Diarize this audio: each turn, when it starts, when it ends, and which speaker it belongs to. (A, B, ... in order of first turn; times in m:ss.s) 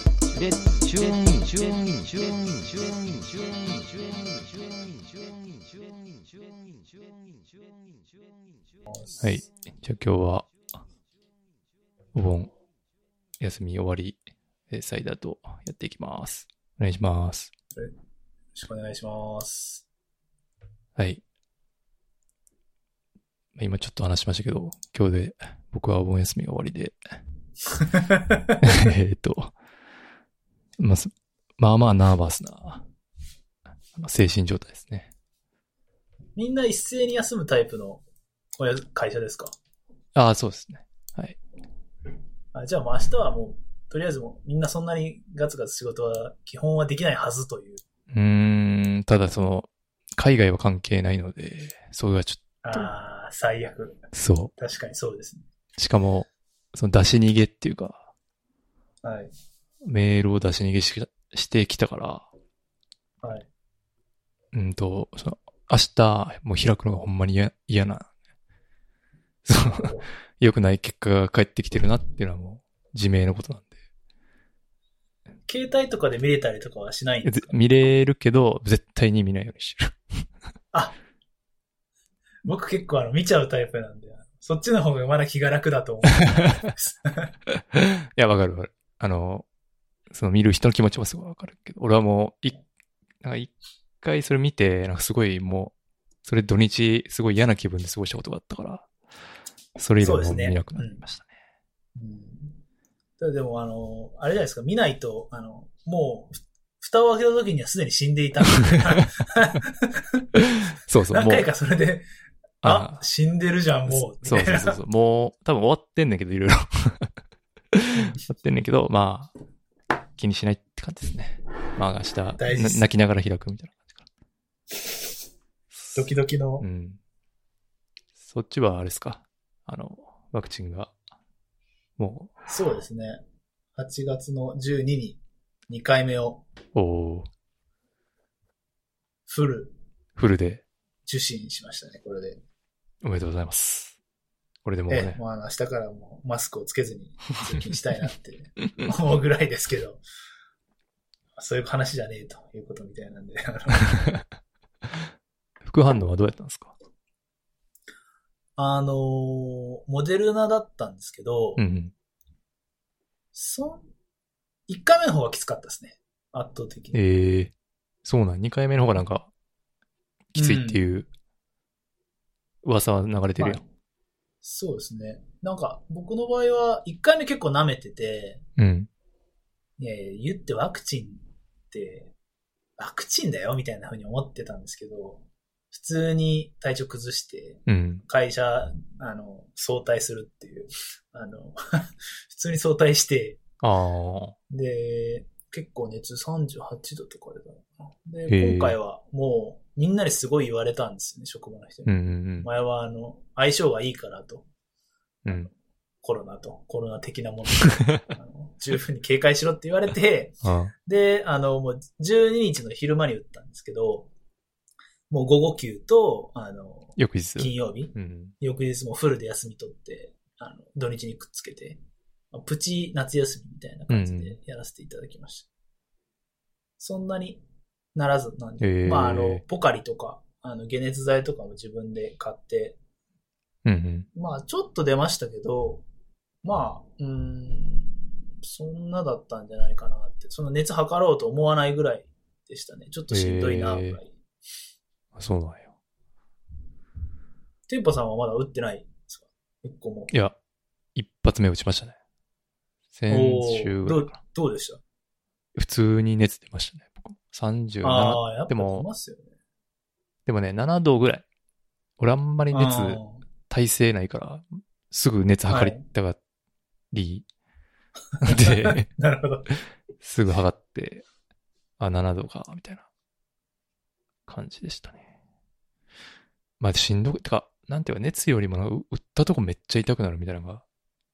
0:00.3-0:07.5 A
0:08.9-0:09.4 B
0:09.2-0:10.5 C
0:12.1-0:12.5 C
0:13.4-0:17.5 C
0:18.5-0:19.8 B
0:21.0-0:21.2 C
0:23.5-0:27.0 C
0:27.8-0:28.6 B
0:28.6-0:29.5 C
0:30.8-0:32.8 C
0:33.9-0:35.1 C
0:36.4-0:38.0 B
0:38.6-0:39.5 B
0:40.1-0:41.4 C
0:42.5-0:47.8 B
0:48.1-0:52.9 C
0:52.6-0:54.0 B
0:54.1-0:54.5 C
0:54.6-0:55.4 B
0:55.8-0:58.1 C
0:59.0-0:59.3 B
0:59.8-1:02.3 C
1:03.2-1:03.5 B
1:04.5-1:08.1 C
1:09.4-1:13.7 C
1:15.5-1:17.6 B
1:17.2-1:20.2 C
1:22.4-1:27.3 B
1:26.1-1:26.7 C
1:27.7-1:29.4 C
1:30.1-1:32.6 C
1:33.2-1:35.7 C
1:36.2-1:38.9 C
1:39.8-1:41.3 C
1:40.0-1:41.0 B
1:42.0-1:42.6 B
1:43.2-1:50.2 B
1:50.4-1:51.5 C
1:51.1-1:52.0 B
1:52.6-1:53.0 C
1:52.6-1:54.8 B
1:53.9-1:57.1 C
1:57.7-1:59.3 C
2:00.2-2:04.0 C
2:02.4-2:02.9 B
2:05.7-2:07.0 C
2:05.9-2:06.6 B
2:08.2-2:10.9 C
2:12.0-2:12.3 C
2:12.5-2:13.2 B
2:13.8-2:16.4 B
2:16.7-2:17.3 C
2:19.3-2:19.7 B
2:20.2-2:20.6 C
2:21.0-2:22.4 B
2:23.0-2:24.0 C
2:24.6-2:25.2 C
2:24.9-2:30.0 B
2:31.4-2:34.0 B
2:35.6-2:36.7 C
2:38.6-2:41.6 B
2:41.6-2:41.9 C
2:43.3-2:43.9 B
2:44.7-2:47.0 B
2:46.9-2:47.5 C
2:48.0-2:49.3 C
2:50.3-2:50.8 B
2:50.4-2:51.1 C
2:52.6-2:53.6 C
2:54.4-2:58.4 B
2:58.6-2:58.9 C
2:59.8-3:02.1 B
3:02.8-3:13.4 B
3:07.7-3:08.0 C
3:13.6-3:14.4 C
3:14.5-3:24.5 B
3:18.3-3:18.8 C
3:21.8-3:22.5 C
3:25.2-3:25.5 C
3:26.0-3:34.1 B
3:27.7-3:27.9 C
3:30.4-3:30.7 C
3:35.1-3:41.8 B
3:37.0-3:38.3 C
3:42.3-3:45.5 B
3:43.9-3:44.4 C
3:46.8-3:47.4 B
3:47.9-3:52.8 B
3:48.6-3:49.4 C
3:53.6-3:54.1 C
3:54.1-3:55.8 B
3:56.4-4:04.1 B
4:03.1-4:04.0 C
4:05.1-4:05.7 C
4:07.7-4:10.1 B
4:10.1-4:10.4 C
4:10.9-4:12.0 C
4:12.9-4:14.2 C
4:13.1-4:14.8 B
4:15.6-4:18.9 C
4:17.8-4:19.3 B
4:20.2-4:21.2 C
4:22.0-4:26.2 C
4:22.5-4:23.2 B
4:25.5-4:25.8 B
4:26.9-4:27.3 C
4:28.2-4:29.5 B
4:28.2-4:28.9 C
4:30.0-4:31.0 C
4:31.8-4:32.8 C
4:34.3-4:35.0 C
4:36.6-4:40.6 C